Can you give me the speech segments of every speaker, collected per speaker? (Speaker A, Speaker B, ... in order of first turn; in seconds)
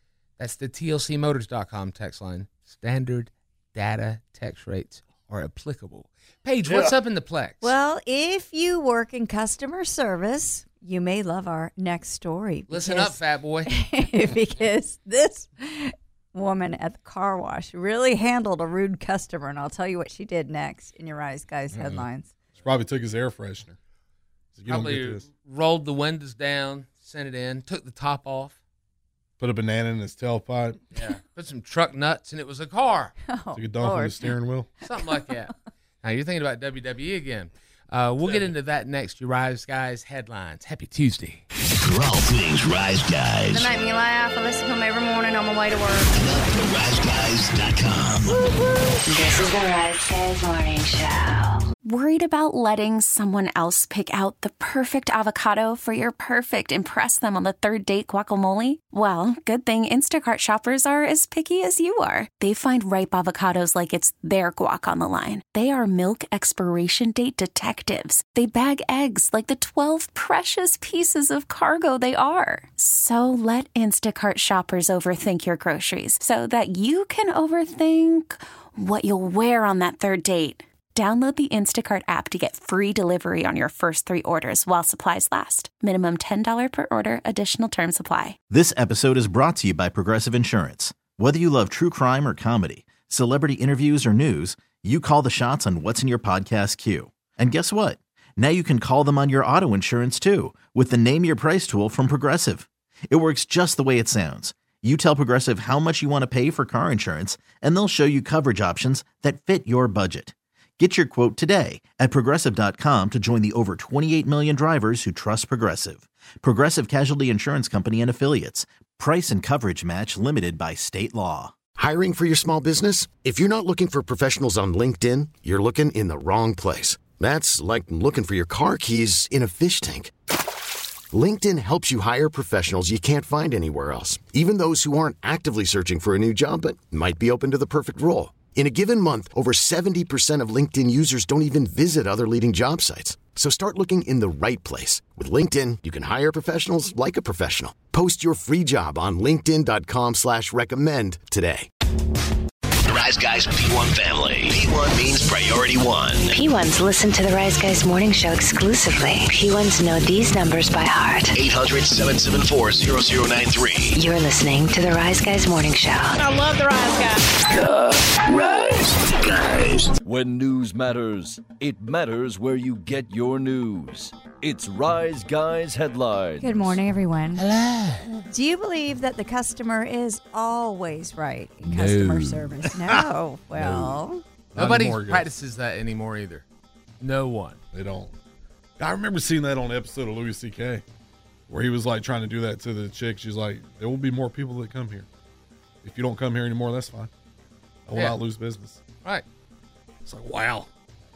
Speaker A: 0.4-7.7, 12.7-13.7, 24.7-28.6, 30.9-33.1, 34.8-41.4, 177.4-178.1, 184.6-186.4, 187.0-187.6, 197.9-198.2
Speaker B: 6.7-6.9, 21.7-22.0, 22.6-23.8, 24.5-25.2, 29.4-30.8, 33.5-34.7, 38.2-38.5, 181.7-183.0, 183.6-184.0, 184.6-185.3, 187.7-188.1, 188.8-190.8, 191.5-195.1, 195.8-197.1, 197.9-198.8, 200.1-200.7
Speaker C: 7.6-22.4, 33.3-34.8, 176.4-177.4, 178.3-184.2
Speaker D: 41.7-43.7, 46.1-48.4, 152.8-156.3, 161.3-164.0, 167.7-169.9
Speaker E: 43.5-46.1, 166.1-167.2
Speaker F: 49.1-51.6, 156.3-161.3, 163.9-166.1
Speaker G: 51.8-88.4
Speaker H: 88.5-121.5
Speaker I: 121.8-130.1, 131.1-151.7
Speaker J: 170.0-176.8